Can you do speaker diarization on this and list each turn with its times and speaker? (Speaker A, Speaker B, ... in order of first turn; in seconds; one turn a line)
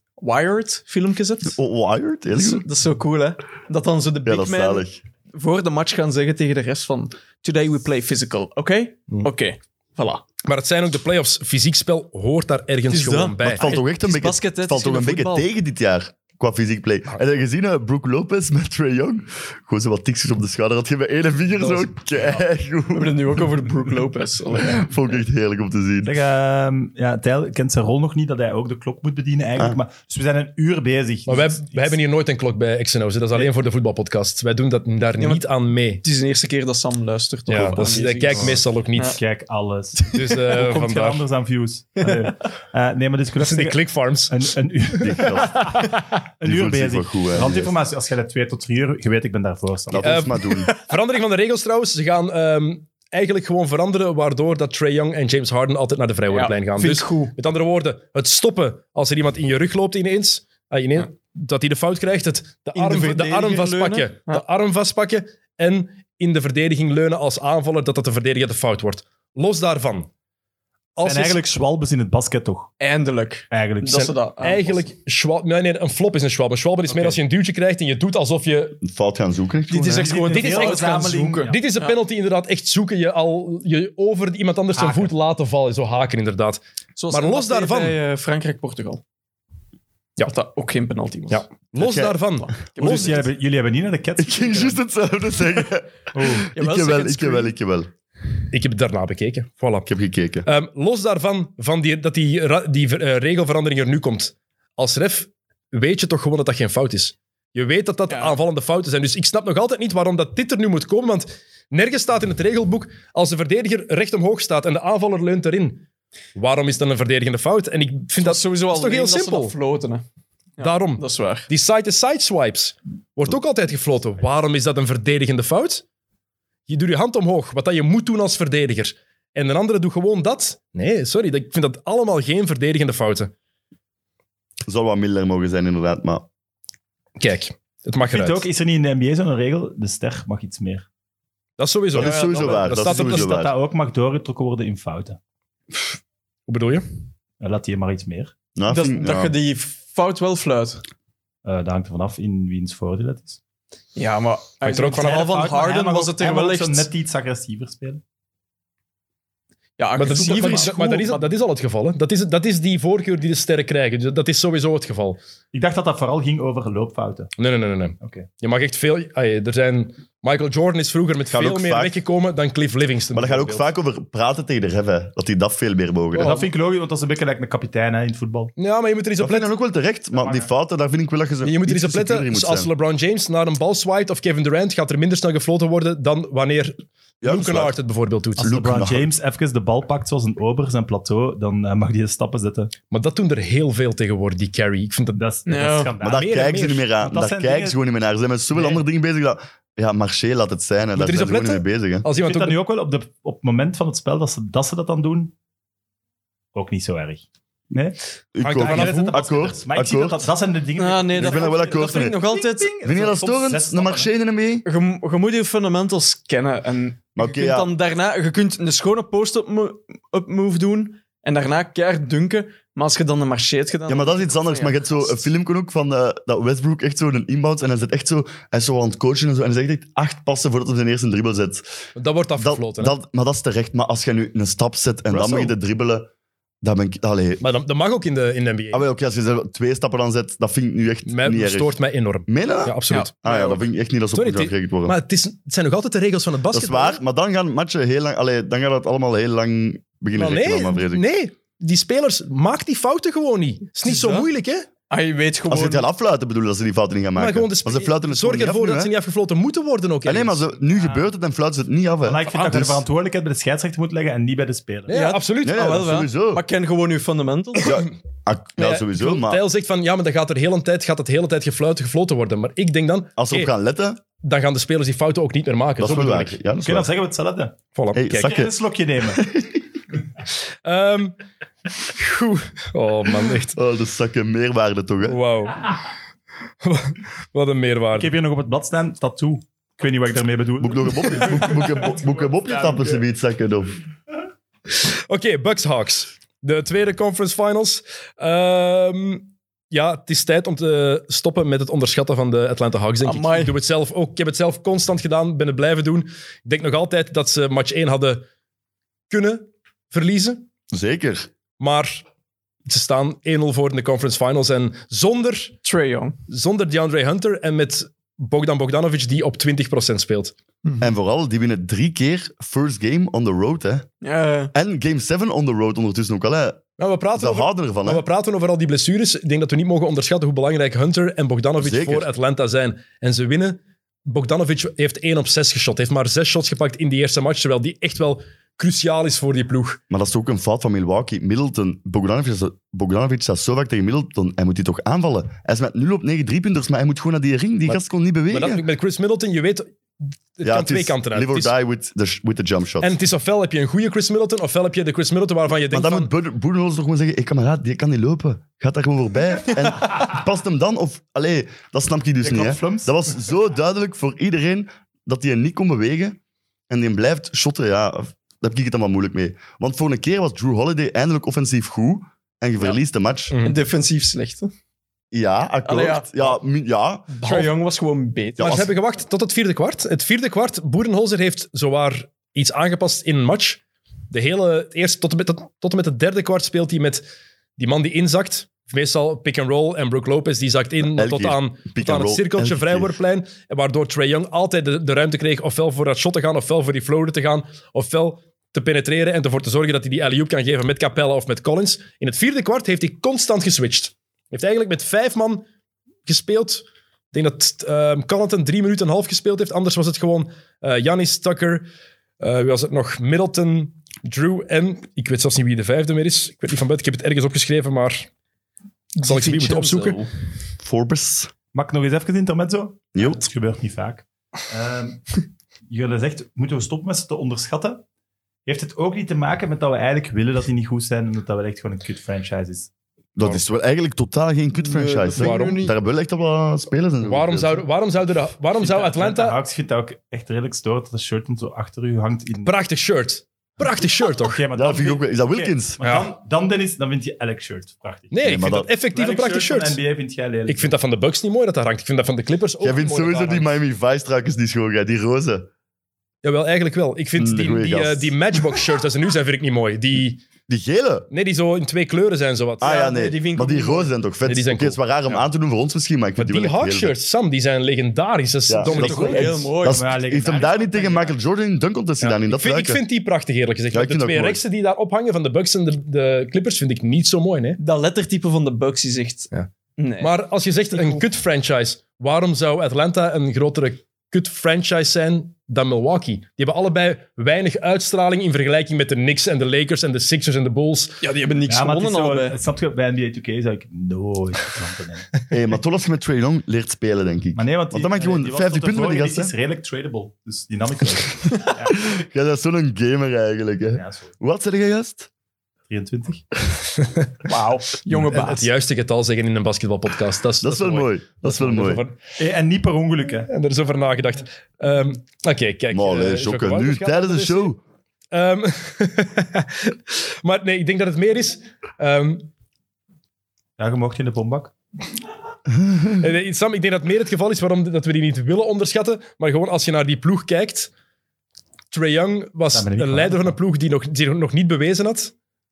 Speaker A: 0.2-1.6
Speaker B: 1.5-2.6
Speaker A: 2.3-10.2
Speaker B: 4.2-5.0
Speaker C: 10.4-13.7
Speaker A: 12.9-15.5
Speaker B: 13.4-23.2
Speaker C: 21.6-21.9
Speaker A: 22.9-24.9
Speaker B: 24.6-26.2
Speaker D: 26.0-31.9
Speaker C: 31.3-36.0
Speaker A: 35.2-35.5
Speaker A: 36.0-39.2
Speaker C: 37.5-39.2
Speaker D: 37.9-38.5
Speaker D: 39.1-50.2
Speaker C: 40.1-41.2
Speaker C: 43.4-44.4
Speaker B: 45.0-45.8
Speaker B: 46.4-47.8
Speaker B: 49.9-50.7
Speaker C: 50.0-70.1
Speaker A: 56.3-57.3
Speaker A: 62.7-64.4
Speaker C: 71.0-71.4
Speaker D: 71.0-72.7
Speaker A: 72.8-74.8
Speaker D: 73.5-74.1
Speaker C: 73.9-78.8
Speaker A: 76.9-77.2
Speaker B: 78.8-80.1
Speaker A: 79.7-81.9
Speaker D: 79.8-81.5
Speaker C: 80.1-88.0
Speaker A: 84.8-85.1
Speaker A: 87.0-89.0
Speaker A: 90.2-91.4
Speaker C: 91.3-93.2
Speaker B: 91.7-92.2
Speaker A: 92.7-93.2
Speaker D: 92.8-94.8
Speaker B: 94.2-97.9
Speaker D: 96.1-96.5
Speaker A: 96.5-97.5
Speaker C: 98.5-99.9
Speaker B: 99.8-100.5
Speaker C: 100.4-119.5
Speaker A: 108.1-108.4
Speaker A: 118.2-120.0
Speaker A: 120.6-121.5
Speaker C: 120.6-125.8
Speaker C: 126.7-133.3
Speaker B: 134.6-136.3
Speaker C: 137.2-138.4
Speaker D: 138.1-140.8
Speaker C: 141.6-143.3
Speaker B: 141.9-143.5
Speaker A: 142.0-142.8
Speaker D: 142.8-145.2
Speaker C: 146.5-146.8
Speaker D: 147.4-148.3
Speaker B: 148.5-149.3
Speaker A: 148.7-150.8
Speaker D: 151.4-153.4
Speaker A: 153.9-156.9
Speaker C: 154.6-155.3
Speaker D: 154.7-158.0
Speaker A: 159.8-161.3
Speaker C: 159.9-165.2
Speaker D: 165.5-167.3
Speaker C: 167.4-173.7
Speaker D: 168.0-168.3
Speaker B: 171.3-172.0
Speaker B: 173.1-176.4
Speaker D: 176.1-178.5
Speaker C: 178.6-179.5
Speaker B: 179.2-182.7
Speaker D: 180.1-180.5
Speaker C: 181.4-188.5
Speaker B: 187.2-187.8
Speaker B: 188.4-189.1
Speaker D: 188.4-192.7
Speaker C: 192.9-195.2
Speaker D: 195.1-196.3
Speaker A: 195.4-195.9
Speaker B: 196.0-202.1
Speaker C: 196.1-196.9
Speaker D: 197.0-197.8
Speaker D: 198.5-198.8
Speaker C: 200.9-202.6
Speaker D: 202.1-205.3
Speaker D: 206.5-208.0
Speaker B: 208.3-210.3
Speaker C: 208.4-209.2
Speaker D: 208.5-214.1
Speaker A: 210.8-212.7
Speaker B: 211.1-212.2
Speaker B: 212.8-214.6
Speaker A: 214.6-225.2
Speaker B: 217.2-217.7
Speaker B: 223.9-231.6
Speaker C: 231.9-232.9
Speaker B: 232.4-236.1
Speaker B: 236.6-237.4
Speaker C: 237.4-238.9
Speaker B: 238.7-241.7
Speaker C: 241.1-243.3
Speaker B: 242.3-244.9
Speaker A: 242.9-243.5
Speaker C: 244.1-247.0
Speaker B: 246.5-251.0
Speaker C: 250.1-254.7
Speaker A: 253.8-254.2
Speaker A: 254.9-255.8
Speaker B: 255.5-258.9
Speaker C: 257.1-260.5
Speaker B: 260.0-262.6
Speaker D: 260.7-261.1
Speaker D: 262.0-264.9
Speaker C: 262.3-262.8
Speaker C: 264.9-265.8
Speaker A: 264.9-267.7
Speaker B: 265.4-266.4
Speaker B: 267.6-269.4
Speaker C: 268.6-273.5
Speaker B: 273.2-274.0
Speaker C: 274.2-276.4
Speaker B: 275.8-276.9
Speaker D: 276.6-277.6
Speaker C: 277.7-278.3
Speaker B: 277.9-278.5
Speaker D: 278.2-279.2
Speaker B: 279.1-279.6
Speaker C: 280.6-281.1
Speaker C: 281.9-283.6
Speaker B: 283.5-285.2
Speaker C: 285.0-285.8
Speaker C: 286.6-288.1
Speaker D: 287.9-293.0
Speaker B: 290.6-293.7
Speaker C: 294.8-308.2
Speaker A: 303.0-303.5
Speaker C: 309.1-310.4
Speaker B: 310.7-311.3
Speaker C: 311.6-312.0
Speaker C: 312.6-315.5
Speaker A: 315.6-316.2
Speaker C: 316.3-320.3
Speaker B: 320.8-323.9
Speaker A: 324.0-324.5
Speaker B: 324.5-326.6
Speaker C: 326.8-339.8
Speaker B: 327.1-328.0
Speaker B: 331.6-332.1
Speaker B: 339.9-348.6
Speaker C: 347.7-349.7
Speaker C: 350.4-351.5
Speaker B: 350.4-352.9
Speaker C: 352.8-356.1
Speaker B: 355.6-366.2
Speaker D: 362.2-362.9
Speaker B: 366.7-373.3
Speaker C: 373.3-373.6
Speaker A: 373.4-374.5
Speaker B: 375.1-377.2
Speaker A: 375.6-376.3
Speaker A: 377.2-378.6
Speaker C: 377.2-377.5
Speaker B: 378.4-378.7
Speaker C: 378.4-387.0
Speaker C: 387.6-405.4
Speaker B: 390.8-392.9
Speaker C: 406.1-411.6
Speaker C: 412.2-418.1
Speaker A: 419.0-420.1
Speaker C: 419.0-420.0
Speaker B: 420.6-421.3
Speaker D: 421.5-427.8
Speaker B: 422.9-423.2
Speaker D: 428.4-432.7
Speaker B: 433.1-437.7
Speaker A: 434.6-435.7
Speaker C: 435.1-435.6
Speaker C: 437.0-439.4
Speaker D: 438.6-442.5
Speaker C: 442.4-444.4
Speaker D: 444.2-448.3
Speaker B: 444.5-445.8
Speaker C: 445.8-446.1
Speaker C: 448.1-449.8
Speaker B: 448.2-448.7
Speaker D: 448.9-450.7
Speaker C: 450.5-453.5
Speaker B: 452.6-455.5
Speaker C: 456.2-460.2
Speaker B: 457.2-458.1
Speaker B: 460.5-461.1
Speaker C: 461.1-462.7
Speaker B: 462.6-466.9
Speaker A: 462.6-463.9
Speaker C: 464.2-464.8
Speaker C: 466.1-469.4
Speaker B: 468.5-472.8
Speaker A: 468.7-469.8
Speaker D: 469.6-471.2
Speaker C: 472.0-477.6
Speaker B: 473.7-474.4
Speaker A: 477.6-480.1
Speaker C: 480.0-491.0
Speaker A: 480.7-481.0
Speaker A: 491.0-492.4
Speaker D: 491.5-495.2
Speaker B: 495.3-499.3
Speaker D: 497.4-501.9
Speaker B: 501.7-505.1
Speaker D: 503.8-504.1
Speaker D: 505.7-506.2
Speaker C: 506.8-507.1
Speaker A: 507.2-508.5
Speaker C: 507.9-512.0
Speaker B: 510.4-511.8
Speaker D: 512.2-513.3
Speaker C: 513.3-517.5
Speaker B: 515.7-517.6
Speaker C: 518.1-522.3
Speaker D: 523.6-524.5
Speaker C: 526.0-530.7
Speaker C: 531.7-535.1
Speaker D: 532.5-533.3